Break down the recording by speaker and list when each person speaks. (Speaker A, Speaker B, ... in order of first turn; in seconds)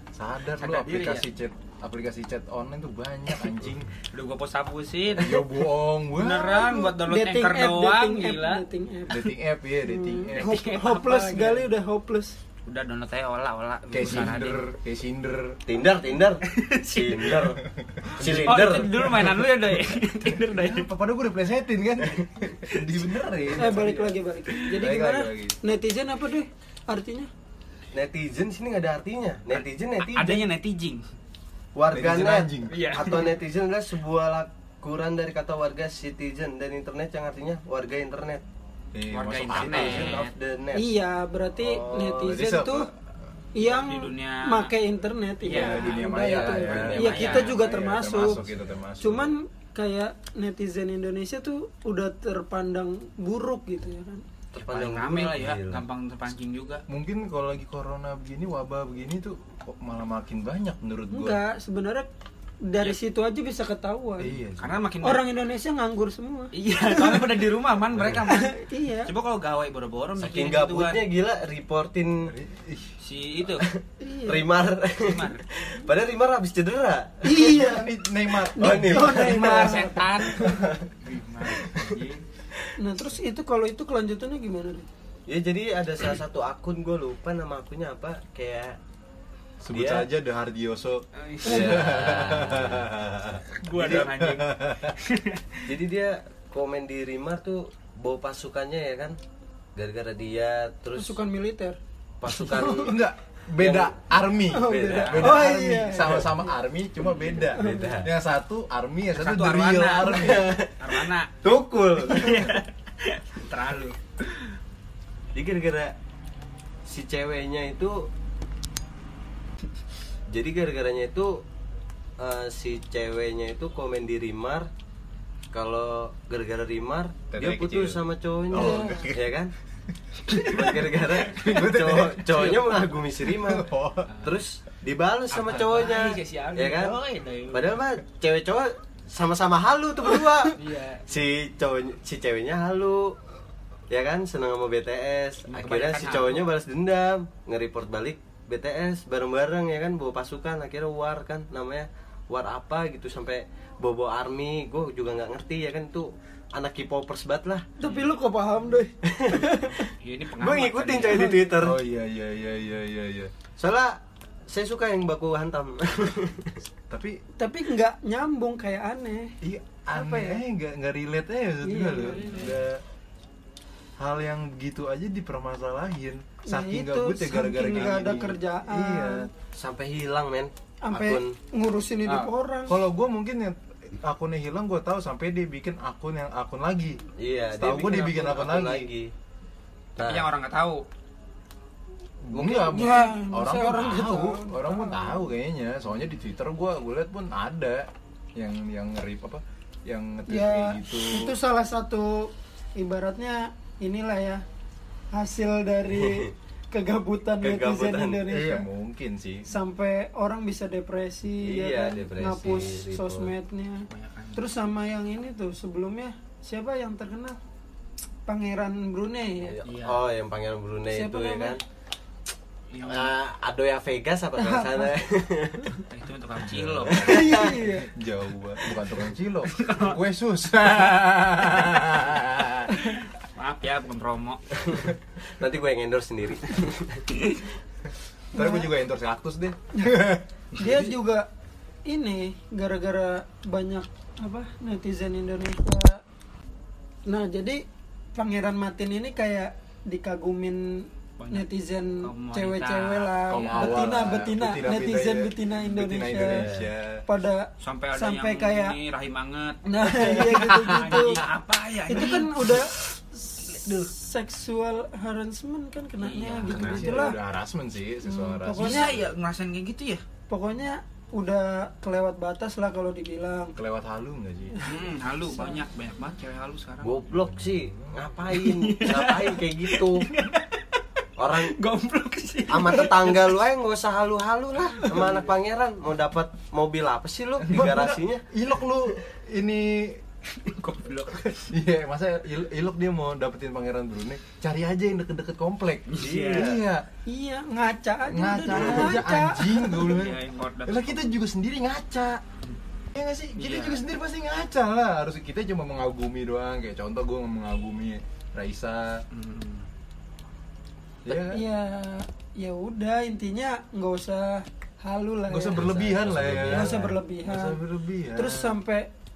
Speaker A: 0.1-3.9, 5.1-6.7, 9.1-10.8, 13.9-15.6, 17.8-19.4, 20.5-23.9, 24.8-25.6, 31.9-32.9, 38.9-40.2, 42.2-42.9, 45.5-49.4, 56.9-61.4, 64.2-64.8, 67.9-68.3, 72.2-73.0, 77.4-79.3, 81.4-82.0, 89.6-94.9, 102.5-110.5, 127.3-129.3, 130.3-134.1, 161.6-163.3, 166.9-167.2, 169.4-172.8, 174.0-179.3, 182.1-187.0, 187.6-188.9, 192.2-201.3, 208.3-209.5, 226.4-232.9, 238.3-240.2, 253.3-257.0, 260.4-261.2, 266.5-269.1, 273.6-274.6, 287.5-290.0, 291.5-296.9, 298.1-302.2, 302.9-309.0, 311.1-311.4, 315.3-318.5
Speaker B: 0.6-1.2, 4.1-8.7, 10.3-11.7, 12.7-14.7, 16.5-17.4, 18.2-20.9, 22.7-23.2, 29.5-31.1, 32.7-33.4, 39.1-40.3, 43.6-44.7, 45.4-48.6, 54.6-56.8, 64.6-65.3, 66.5-71.1, 73.0-73.7, 74.9-75.4, 79.3-82.2, 91.2-92.3, 93.6-95.7, 105.0-105.4, 109.1-111.3, 112.0-114.0, 130.3-130.8, 134.1-134.4, 135.3-137.8, 140.6-141.0, 145.5-146.5, 157.8-158.1, 160.0-161.4, 172.2-172.5, 190.0-190.8, 213.9-214.5, 219.6-220.1, 222.7-223.1, 225.9-227.3, 229.5-230.0, 233.2-234.4, 251.2-253.9, 257.6-262.7, 266.0-267.1, 268.6-270.0, 274.6-277.1, 278.3-280.8, 281.3-283.2, 290.3-291.5, 295.9-296.6, 298.5-299.0, 299.8-301.1, 303.4-303.8, 309.1-309.7
Speaker C: 6.5-9.3, 9.9-12.4, 23.6-27.3, 40.7-42.9, 43.5-48.4, 49.0-54.2, 61.1-62.1, 62.6-64.4, 65.0-67.2, 68.3-69.1, 74.0-74.6, 77.2-80.5, 82.8-84.9, 101.0-101.8, 104.5-106.3, 107.6-107.9, 128.5-129.1, 157.8-159.9, 167.4-169.4, 169.9-170.4, 171.6-172.5, 176.5-179.3, 180.8-182.8, 192.4-195.3, 200.3-204.4, 205.1-208.7, 209.5-217.4, 218.3-219.6, 220.9-221.6, 224.4-224.9, 227.0-227.9, 238.3-238.7, 240.6-241.2, 241.9-246.0, 247.1-247.6, 248.2-256.5, 257.1-258.8, 259.6-261.2, 261.9-267.2, 268.1-268.9, 270.3-273.6, 274.6-275.6, 297.1-299.9, 311.1-315.6, 316.4-317.6, 318.1-318.9
Speaker D: 15.7-17.6, 18.2-18.9, 22.1-22.5, 23.7-24.1, 27.9-30.5, 31.8-38.4, 39.5-40.9, 41.6-42.3, 54.5-55.9, 70.2-72.3, 73.6-77.5, 78.6-80.9, 85.3-88.8, 89.7-90.1, 91.4-93.0, 95.7-99.2, 99.8-101.2, 102.2-103.0, 103.6-106.3, 107.3-108.1, 110.0-112.5, 115.3-115.9, 116.9-118.1, 120.3-121.4, 122.2-124.7, 125.5-129.5, 130.4-133.7, 134.2-143.2, 143.9-157.7, 159.1-159.4, 160.4-161.8, 163.6-166.6, 179.6-181.3, 187.2-189.1, 190.0-190.3, 205.9-206.3, 207.4-208.2, 211.4-213.3, 219.4-221.6, 222.8-225.8, 226.9-227.5, 234.7-237.1, 256.3-256.7, 276.8-280.1, 281.2-281.5, 282.5-288.2, 296.0-296.6, 315.5-316.9